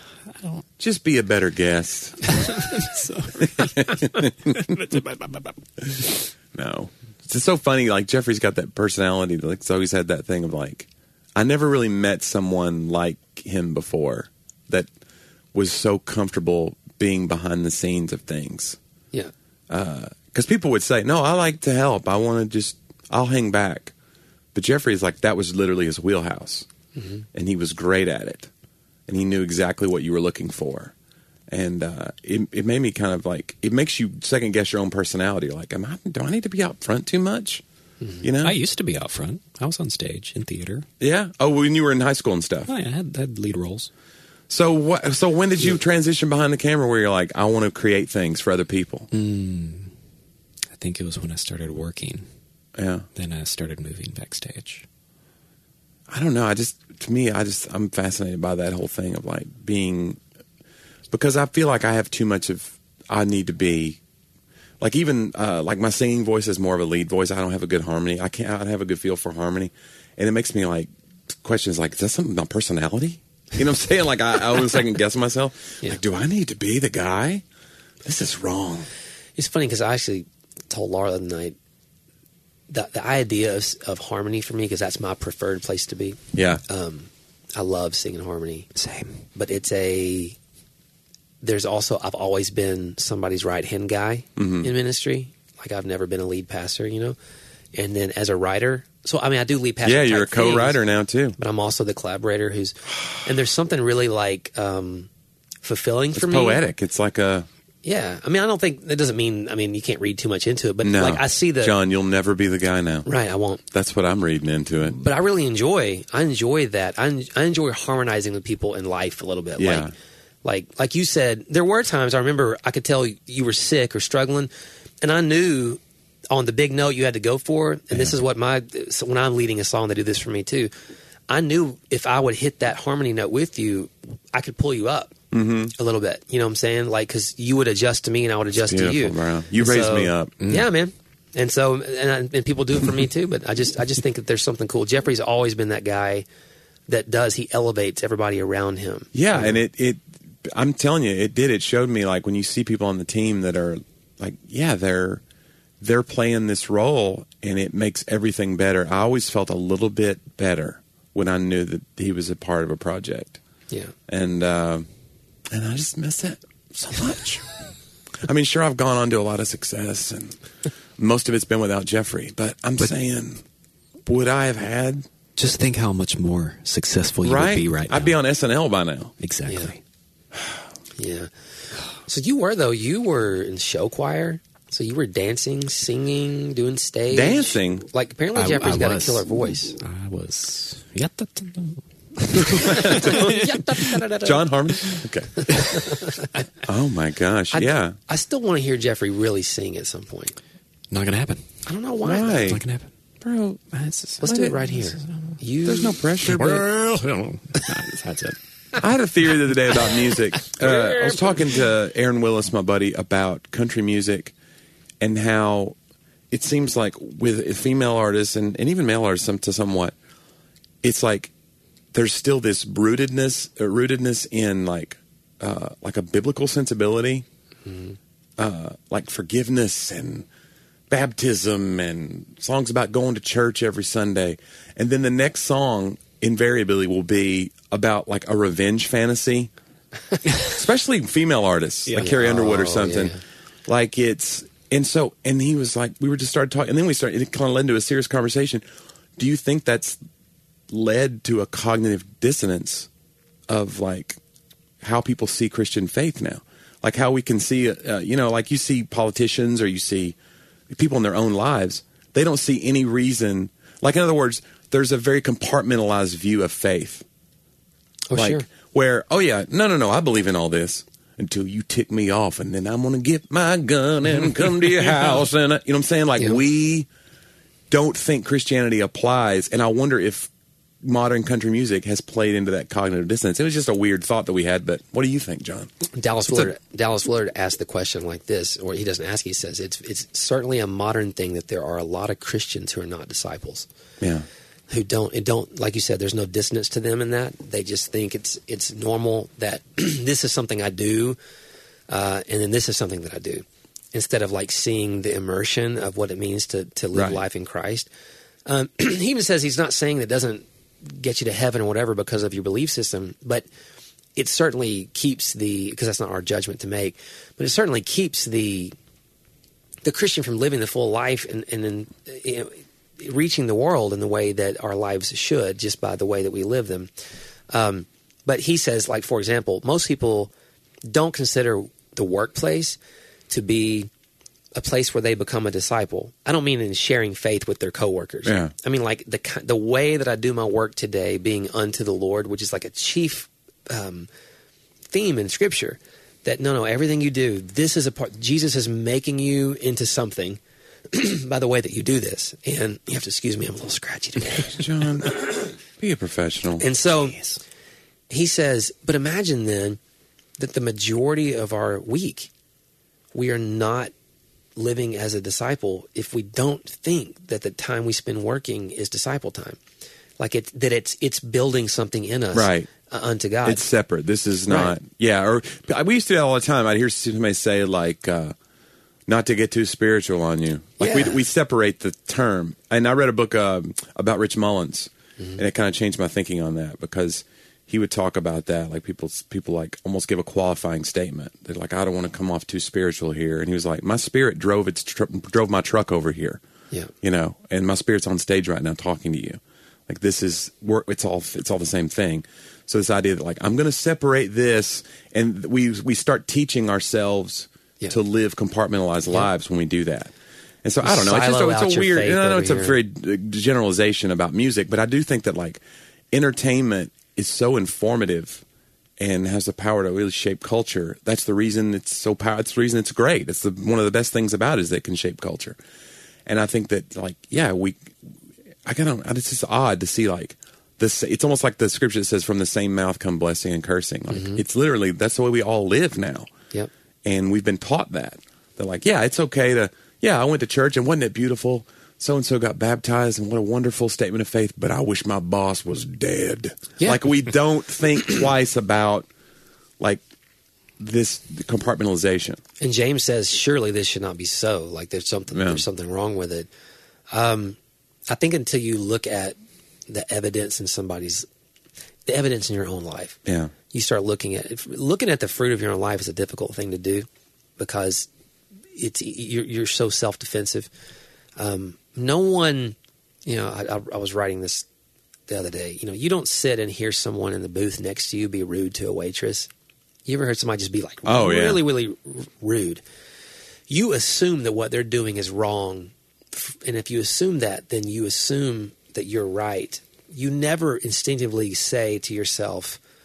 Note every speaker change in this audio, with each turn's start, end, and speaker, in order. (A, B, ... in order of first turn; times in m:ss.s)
0:00.8-0:02.4 A
0:02.2-0:05.5 B
0:03.4-0:04.7 A
0:05.8-0:14.9 A
0:15.5-0:18.8 A
0:19.7-0:23.9 A
0:24.5-0:26.6 A
0:27.0-0:27.2 C
0:27.3-0:28.5 A
0:29.1-0:30.9 A
0:31.5-0:37.6 A
0:38.0-0:38.2 C
0:38.2-0:38.6 A
0:38.4-0:40.8 B
0:41.0-0:42.7 A
0:42.6-0:43.9 B
0:44.5-0:49.1 A
0:49.1-0:49.9 B
0:50.7-0:52.2 B
0:52.8-0:53.0 A
0:53.2-0:54.8 B
0:56.1-1:00.2 A
1:01.1-1:04.0 A
1:04.8-1:10.9 A
1:11.4-1:17.4 A
1:18.0-1:18.9 A
1:19.4-1:21.6 C
1:22.7-1:28.7 C
1:26.3-1:26.6 A
1:28.8-1:29.2 B
1:29.3-1:30.4 C
1:31.4-1:37.2 C
1:34.4-1:34.7 A
1:37.7-1:40.8 C
1:39.8-1:41.4 A
1:41.4-1:45.1 C
1:45.6-1:46.6 C
1:46.1-1:47.5 A
1:47.8-1:51.7 C
1:50.8-1:53.1 A
1:53.0-1:53.6 C
1:53.7-1:55.0 A
1:54.9-1:59.9 C
1:59.6-1:59.9 A
2:00.4-2:10.7 C
2:11.3-2:15.1 C
2:15.3-2:15.7 A
2:15.7-2:26.2 C
2:18.6-2:20.5 A
2:26.9-2:29.6 C
2:29.1-2:35.2 A
2:35.8-2:43.4 A
2:44.1-2:44.9 A
2:45.5-2:47.5 A
2:48.2-2:50.4 A
2:51.0-2:53.4 A
2:54.0-2:55.1 A
2:55.4-2:58.1 B
2:57.2-2:59.1 A
2:59.2-2:59.8 B
2:59.5-2:59.7 C
3:01.0-3:01.3 C
3:02.0-3:09.8 C
3:07.1-3:07.8 A
3:08.3-3:13.8 B
3:12.4-3:13.4 A
3:12.5-3:14.5 C
3:14.2-3:15.5 A
3:15.4-3:16.4 C
3:16.6-3:18.0 A
3:17.5-3:20.3 C
3:20.9-3:21.5 B
3:21.6-3:22.5 C
3:22.0-3:22.6 A
3:22.4-3:22.9 B
3:23.2-3:23.6 A
3:23.7-3:25.4 B
3:24.2-3:26.0 C
3:24.2-3:24.6 A
3:25.6-3:26.6 A
3:26.2-3:28.4 B
3:28.8-3:34.3 A
3:30.6-3:31.4 C
3:35.0-3:35.7 A
3:36.3-3:39.9 A
3:40.8-3:41.3 A
3:41.9-3:47.2 A
3:47.6-3:48.0 C
3:48.4-3:50.2 A
3:50.9-3:59.5 A
4:00.4-4:03.1 A
4:02.0-4:03.2 C
4:03.7-4:08.6 A
4:09.2-4:10.0 A
4:10.7-4:12.9 A
4:13.5-4:14.2 A
4:14.8-4:20.2 A
4:20.7-4:27.0 A
4:28.1-4:28.5 C
4:28.1-4:36.9 A
4:37.7-4:40.3 A
4:40.8-4:45.7 A
4:45.9-4:53.7 C
4:54.0-4:54.2 A
4:54.7-5:01.2 C
5:01.9-5:07.9 C
5:06.9-5:07.2 A
5:08.4-5:13.4 C
5:14.2-5:18.7 C
5:19.8-5:26.9 C
5:27.5-5:30.3 C
5:30.8-5:32.8 C
5:33.3-5:33.9 C
5:34.5-5:44.1 C
5:38.2-5:38.5 A
5:44.9-5:50.4 C
5:50.9-5:55.5 C
5:54.3-5:56.6 A
5:56.6-5:57.2 C
5:58.1-5:59.8 C
6:00.4-6:02.3 C
6:03.1-6:03.9 C
6:04.6-6:09.6 C
6:10.2-6:13.6 C
6:12.3-6:12.7 A
6:13.4-6:18.3 A
6:14.5-6:14.7 C
6:19.1-6:36.4 A
6:20.8-6:21.2 C
6:37.0-6:50.1 A
6:50.6-6:55.6 A
6:50.8-6:52.8 C
6:56.1-6:58.4 A
6:59.0-7:05.6 A
7:06.2-7:08.0 A
7:08.6-7:16.3 A
7:14.1-7:14.4 C
7:17.0-7:29.1 A
7:26.8-7:27.0 C
7:30.8-7:32.4 A
7:32.6-7:36.5 C
7:35.3-7:35.6 A
7:37.1-7:37.6 C
7:38.1-7:39.4 C
7:39.9-7:41.3 C
7:42.0-7:43.2 C
7:43.2-7:43.5 A
7:43.7-7:47.1 C
7:47.6-7:48.1 C
7:48.7-7:50.7 C
7:51.4-7:54.7 C
7:55.3-7:59.5 C
8:00.0-8:02.8 C
8:01.0-8:01.6 A
8:03.7-8:12.8 C